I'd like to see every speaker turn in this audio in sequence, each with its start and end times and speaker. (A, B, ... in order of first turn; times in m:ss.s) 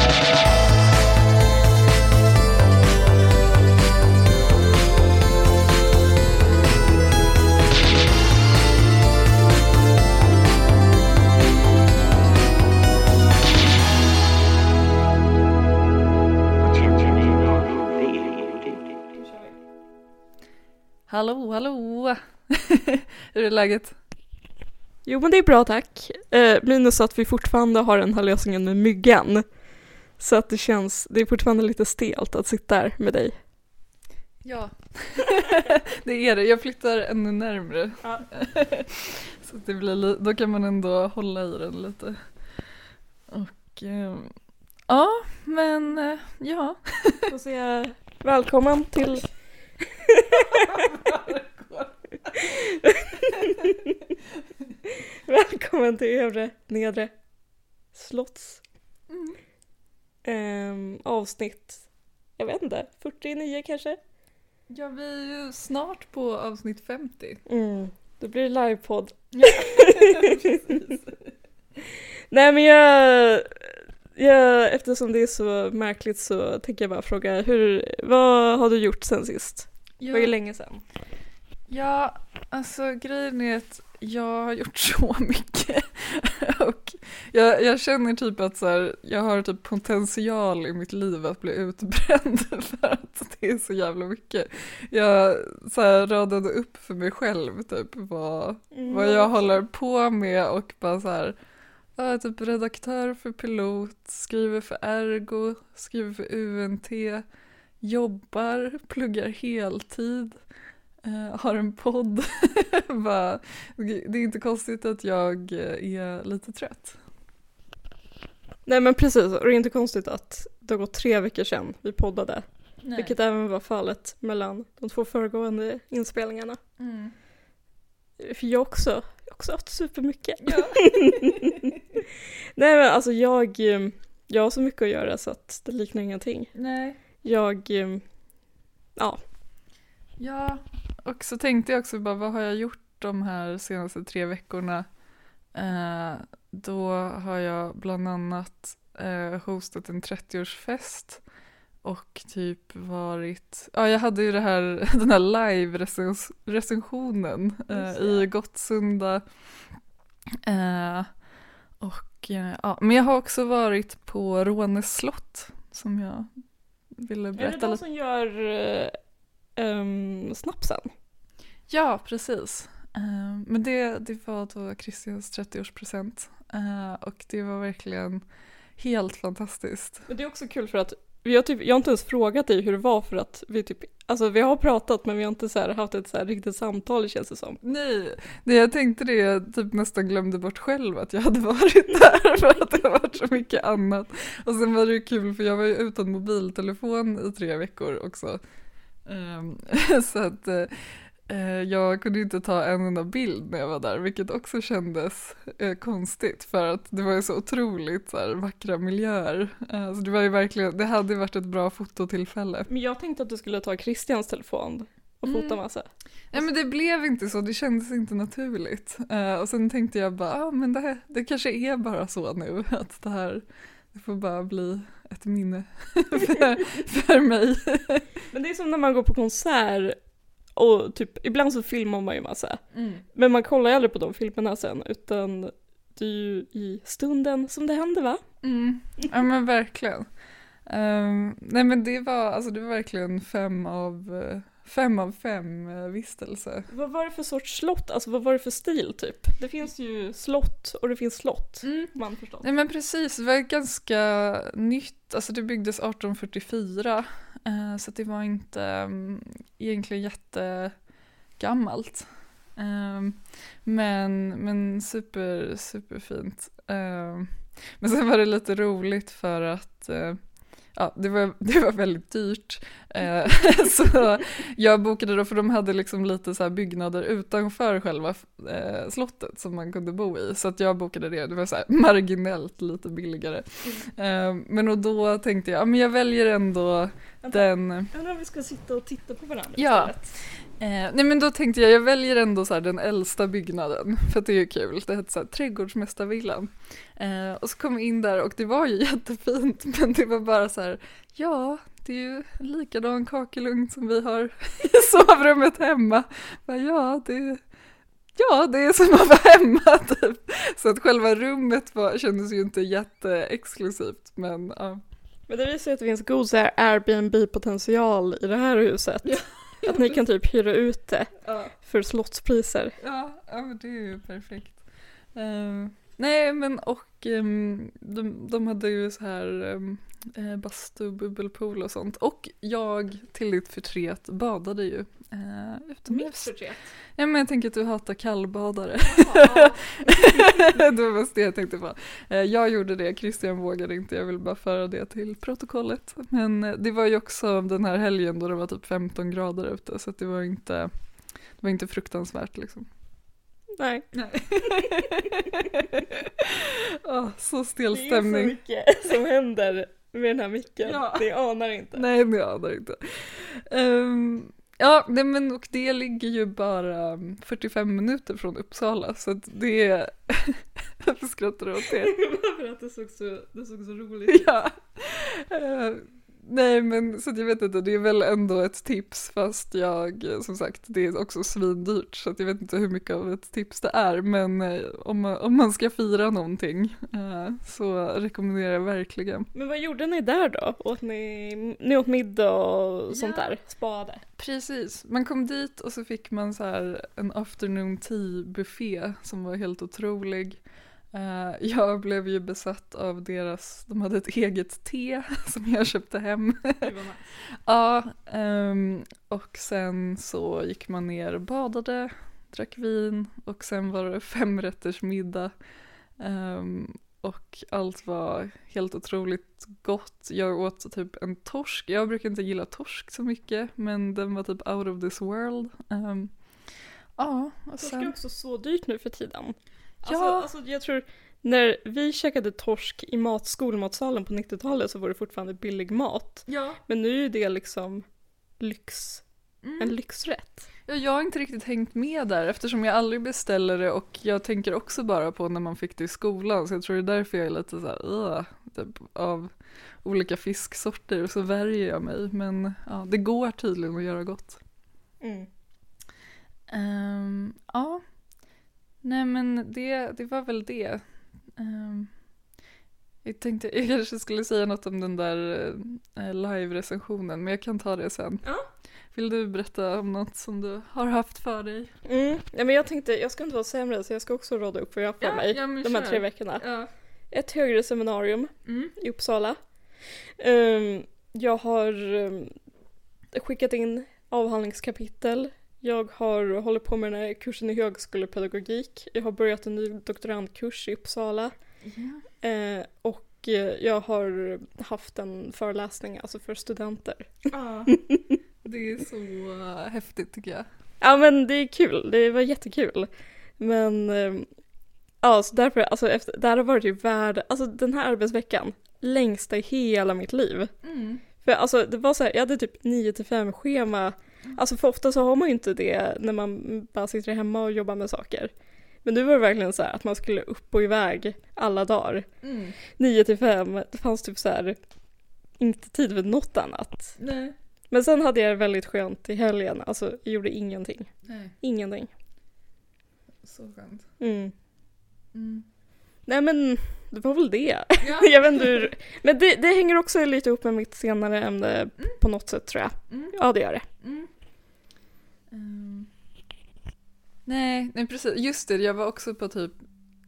0:16.6-0:19.0 A
0:19.1-0:19.6 B
0:21.1-0:24.0 C
0:25.1-0:29.4 B
0:30.2-0:33.4 B
0:34.4-0:42.2 C
0:43.3-0:44.3 C
0:44.9-0:47.3 C
0:47.3-0:49.3 B
0:49.8-0:50.9 B
0:50.3-0:53.8 C
0:52.3-0:54.1 B
0:54.8-0:57.1 B
0:57.9-0:58.6 B
0:59.1-0:59.4 C
1:00.2-1:01.9 B
1:02.4-1:04.0 B
1:04.7-1:07.4 C
1:07.5-1:10.9 B
1:09.3-1:11.3 C
1:12.3-1:20.8 B
1:20.0-1:20.4 C
1:21.7-1:41.4 C
1:38.7-1:39.6 B
1:42.0-1:47.2 C
1:47.8-1:50.4 C
1:51.0-1:57.0 C
1:58.7-2:06.6 B
2:02.8-2:03.2 C
2:06.8-2:07.1 C
2:08.2-2:12.0 B
2:10.4-2:11.8 C
2:12.6-2:16.5 B
2:16.6-2:17.0 C
2:17.2-2:18.0 B
2:20.2-2:24.9 C
2:25.5-2:31.2 C
2:31.8-2:39.2 C
2:37.7-2:38.3 B
2:40.4-2:41.1 C
2:41.8-2:46.3 C
2:47.0-2:47.8 C
2:47.4-2:49.0 B
2:49.6-2:50.9 B
2:51.7-2:58.2 C
2:58.8-3:00.0 C
3:00.1-3:07.6 B
3:07.6-3:18.4 C
3:19.1-3:32.7 C
3:32.7-3:35.9 B
3:35.3-3:35.6 C
3:36.3-3:48.1 C
3:48.3-3:50.0 B
3:50.6-3:52.6 B
3:52.7-3:53.0 C
3:53.1-3:58.2 B
3:58.4-4:00.1 C
4:00.7-4:06.7 C
4:06.7-4:12.5 B
4:11.6-4:20.7 C
4:21.4-4:30.2 C
4:30.8-4:47.9 C
4:47.2-4:50.2 B
4:49.6-4:50.0 C
4:50.5-5:07.4 C
5:08.2-5:14.8 C
5:15.3-5:22.8 B
5:19.0-5:20.0 C
5:21.2-5:21.5 C
5:22.8-5:24.6 C
5:25.2-5:36.3 C
5:35.9-5:36.7 B
5:37.0-5:50.7 C
5:38.9-5:40.4 B
5:51.4-5:52.7 C
5:53.6-5:55.4 B
5:53.9-5:58.4 C
5:57.7-6:01.8 B
6:00.6-6:01.1 C
6:01.7-6:11.9 C
6:11.6-6:14.4 B
6:14.1-6:29.3 C
6:29.3-6:34.0 B
6:32.9-6:33.4 C
6:34.2-6:40.4 C
6:40.9-6:46.7 C
6:46.6-6:47.1 B
6:47.5-6:55.3 C
6:56.0-7:06.1 C
7:07.0-7:07.9 C
7:07.6-7:17.8 B
7:09.8-7:10.3 C
7:16.3-7:16.6 C
7:18.4-7:19.0 B
7:19.4-7:19.8 C
7:19.6-7:20.5 B
7:20.7-7:34.4 C
7:35.0-7:35.3 B
7:36.5-7:37.8 C
7:38.8-7:40.8 C
7:41.4-7:41.9 C
7:43.0-7:48.2 C
7:48.9-7:51.7 C
7:51.9-7:56.5 B
7:55.0-7:56.7 C
7:57.1-7:59.4 B
7:58.5-7:58.8 C
8:00.2-8:02.3 B
8:03.1-8:11.3 B
8:11.6-8:12.0 C
8:12.2-8:18.2 B
8:17.3-8:17.8 C
8:18.4-8:20.5 C
8:20.8-8:24.3 B
8:25.0-8:30.5 B
8:30.6-8:31.0 C
8:31.2-8:38.3 B
8:38.8-8:42.1 B
8:42.2-8:42.6 C
8:42.7-8:44.6 B
8:45.4-8:47.0 B
8:47.0-8:47.4 C
8:47.7-8:51.9 B
8:51.0-8:51.3 C
8:53.2-8:53.9 C
8:54.0-8:54.3 B
8:55.1-8:55.5 C
8:56.1-9:03.6 B
8:57.8-8:58.7 C
9:02.9-9:03.2 C
9:03.8-9:04.1 C
9:05.3-9:05.9 C
9:07.3-9:09.6 C